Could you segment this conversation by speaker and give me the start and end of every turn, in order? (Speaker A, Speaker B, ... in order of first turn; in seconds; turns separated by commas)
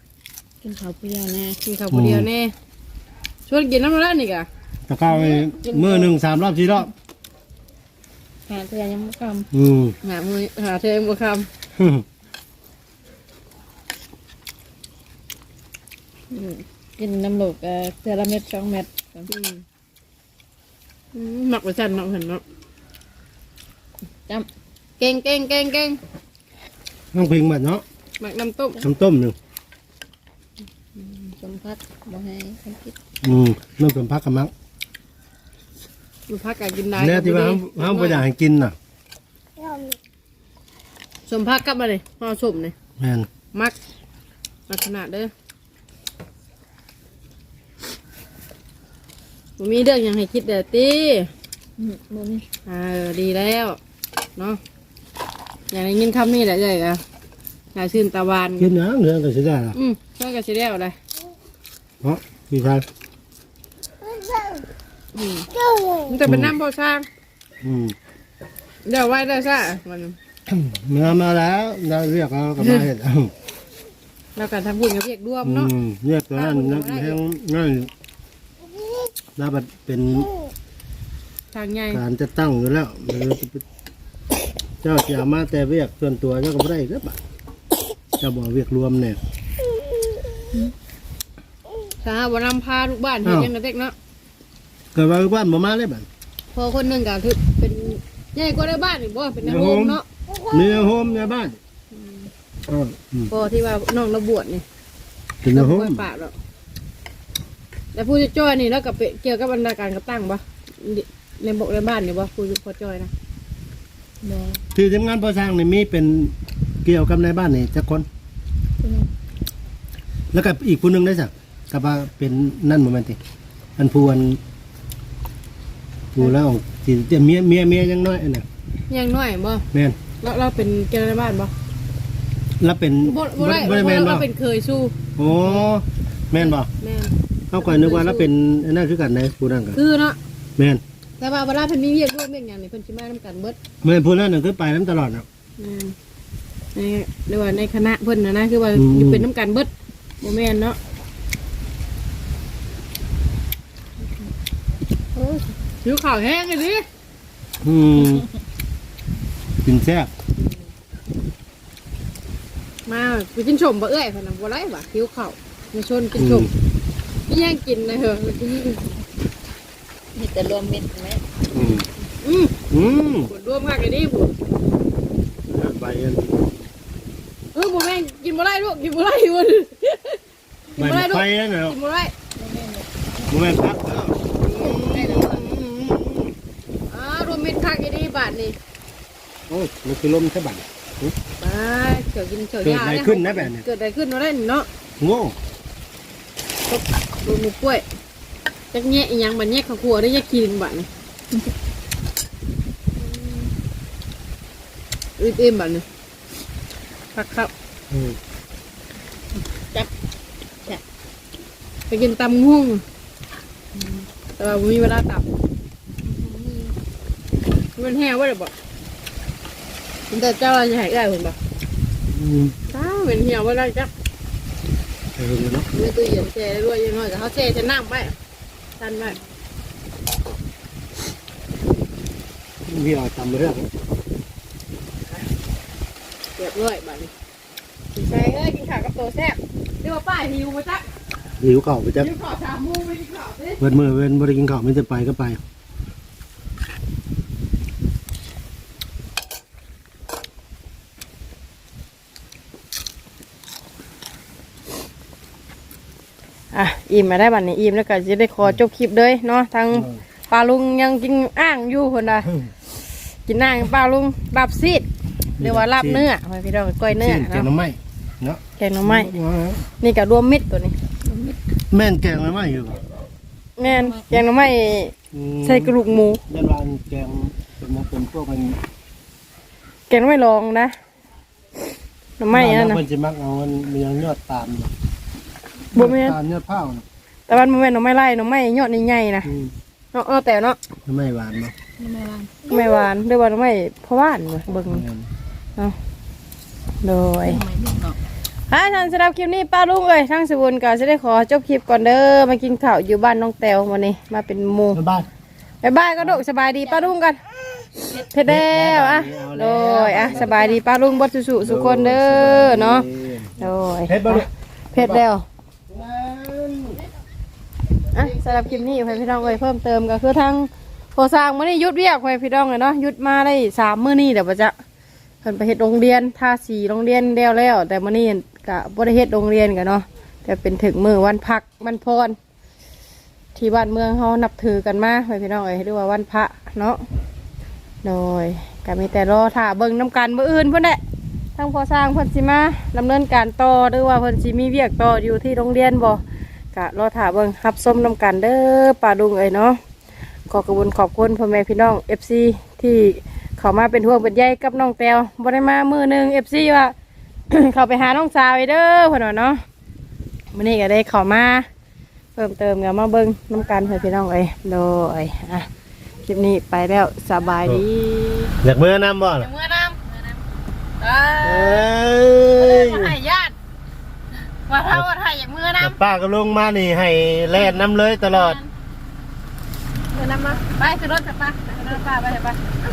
Speaker A: 0.6-1.6, Speaker B: 1.6-2.5, Speaker C: 1.9-2.3, Speaker B: 3.5-4.5, Speaker C: 4.9-6.9, Speaker A: 5.1-6.1, Speaker A: 8.5-9.5, Speaker C: 9.5-10.0, Speaker B: 10.0-11.5, Speaker C: 11.7-12.0, Speaker A: 16.3-19.3, Speaker B: 19.3-19.6, Speaker B: 21.1-22.4, Speaker B: 25.0-26.0, Speaker C: 27.1-27.8, Speaker B: 28.2-28.8, Speaker C: 28.8-29.4, Speaker A: 31.4-32.9, Speaker C: 33.2-34.5, Speaker B: 36.3-38.2, Speaker C: 37.0-38.7, Speaker B: 41.3-42.7, Speaker C: 43.0-43.3, Speaker B: 44.7-45.3, Speaker B: 49.6-51.3, Speaker A: 51.8-52.4, Speaker B: 52.6-53.8, Speaker B: 55.7-57.0, Speaker B: 57.7-58.7, Speaker C: 58.6-59.8, Speaker B: 59.7-61.0, Speaker C: 62.0-62.9, Speaker A: 64.2-64.6, Speaker B: 65.1-65.5, Speaker B: 66.0-67.0, Speaker C: 66.2-66.5, Speaker C: 67.6-68.0, Speaker B: 68.8-70.2, Speaker C: 70.5-73.3, Speaker B: 74.3-75.7, Speaker C: 75.4-77.9, Speaker B: 76.3-77.2, Speaker C: 79.3-80.3, Speaker B: 81.5-82.0, Speaker C: 81.9-83.6, Speaker C: 84.8-87.2, Speaker C: 88.2-89.2, Speaker B: 92.0-93.9, Speaker C: 93.2-93.5, Speaker C: 94.9-96.1, Speaker B: 96.5-100.0, Speaker C: 99.4-100.0, Speaker C: 100.5-101.6, Speaker B: 101.9-102.3, Speaker C: 102.7-103.3, Speaker B: 103.3-104.6, Speaker C: 105.4-106.0, Speaker B: 105.5-106.3, Speaker B: 107.9-113.1, Speaker A: 114.2-114.6, Speaker C: 114.7-118.1, Speaker A: 118.8-119.1, Speaker C: 120.3-123.2, Speaker C: 123.8-124.4, Speaker C: 126.1-128.4, Speaker B: 128.9-129.6, Speaker C: 129.7-130.0, Speaker B: 130.2-131.5, Speaker C: 132.6-134.3, Speaker B: 133.0-135.7, Speaker C: 135.2-136.7, Speaker B: 136.3-138.3, Speaker C: 137.5-139.8, Speaker B: 139.8-140.2, Speaker C: 140.6-140.8, Speaker B: 141.2-143.6, Speaker C: 143.8-145.2, Speaker B: 145.6-145.9, Speaker B: 146.7-149.7, Speaker C: 148.7-149.3, Speaker B: 150.2-150.8, Speaker B: 155.8-156.8, Speaker C: 157.6-158.3, Speaker C: 159.6-160.1, Speaker B: 162.9-166.5, Speaker C: 166.2-166.5, Speaker B: 167.3-168.8, Speaker A: 170.1-171.2, Speaker C: 171.5-171.9, Speaker B: 172.2-172.5, Speaker C: 172.7-173.3, Speaker B: 173.3-174.3, Speaker C: 175.5-176.4, Speaker B: 177.5-180.2, Speaker B: 180.7-182.1, Speaker C: 180.8-181.7, Speaker A: 182.3-183.3, Speaker C: 183.3-186.3, Speaker B: 184.4-185.4, Speaker A: 184.6-185.5, Speaker B: 186.9-188.6, Speaker C: 189.5-191.1, Speaker B: 191.4-194.7, Speaker C: 192.6-193.7, Speaker C: 195.0-195.3, Speaker B: 196.7-197.8, Speaker B: 198.7-200.9, Speaker B: 205.2-205.8, Speaker B: 207.1-207.5, Speaker C: 207.9-208.2, Speaker B: 211.9-212.8, Speaker B: 214.4-215.2, Speaker A: 216.1-216.7, Speaker B: 217.8-218.5, Speaker B: 220.1-221.4, Speaker C: 222.1-222.5, Speaker B: 222.7-223.9, Speaker C: 225.2-225.7, Speaker B: 225.7-228.1, Speaker B: 228.8-229.2, Speaker C: 232.7-233.7, Speaker B: 236.4-237.1, Speaker B: 237.9-240.9, Speaker C: 241.4-242.1, Speaker B: 242.0-243.6, Speaker C: 243.6-245.4, Speaker B: 256.5-262.3, Speaker C: 259.7-260.0, Speaker B: 263.3-264.9, Speaker C: 265.4-266.1, Speaker B: 265.4-267.5, Speaker C: 267.0-269.6, Speaker B: 268.6-269.1, Speaker B: 269.8-270.8, Speaker A: 271.0-271.4, Speaker C: 271.7-272.8, Speaker B: 273.6-276.2, Speaker A: 273.6-274.1, Speaker C: 275.1-275.7, Speaker C: 276.3-278.6, Speaker B: 279.9-280.7, Speaker B: 282.2-282.8, Speaker C: 282.3-284.7, Speaker B: 285.7-286.1, Speaker C: 285.7-286.8, Speaker B: 287.3-289.3, Speaker C: 289.2-289.5, Speaker B: 289.9-290.6, Speaker C: 290.9-291.5, Speaker A: 291.8-292.8, Speaker B: 292.5-294.8, Speaker C: 294.7-295.1, Speaker B: 296.8-297.4, Speaker A: 297.2-298.0, Speaker B: 298.5-304.8, Speaker C: 304.7-305.1, Speaker B: 305.6-307.2, Speaker B: 307.8-312.8, Speaker C: 308.2-310.6, Speaker C: 311.4-313.3, Speaker B: 313.4-315.2, Speaker C: 313.9-315.0, Speaker C: 315.7-316.8, Speaker B: 317.9-324.5, Speaker C: 318.0-318.4, Speaker B: 325.2-332.2, Speaker B: 333.3-336.8, Speaker B: 337.8-340.8, Speaker B: 341.4-346.0, Speaker B: 346.5-349.6, Speaker B: 350.3-356.7, Speaker B: 357.3-359.4, Speaker B: 360.3-361.5, Speaker B: 362.1-365.5, Speaker B: 366.1-368.3, Speaker C: 368.4-369.3, Speaker B: 369.2-369.9, Speaker B: 370.8-371.7, Speaker C: 371.2-372.9, Speaker B: 372.4-373.3, Speaker B: 374.5-375.8, Speaker C: 375.6-378.4, Speaker B: 378.1-378.5, Speaker A: 379.9-380.4, Speaker B: 380.4-382.4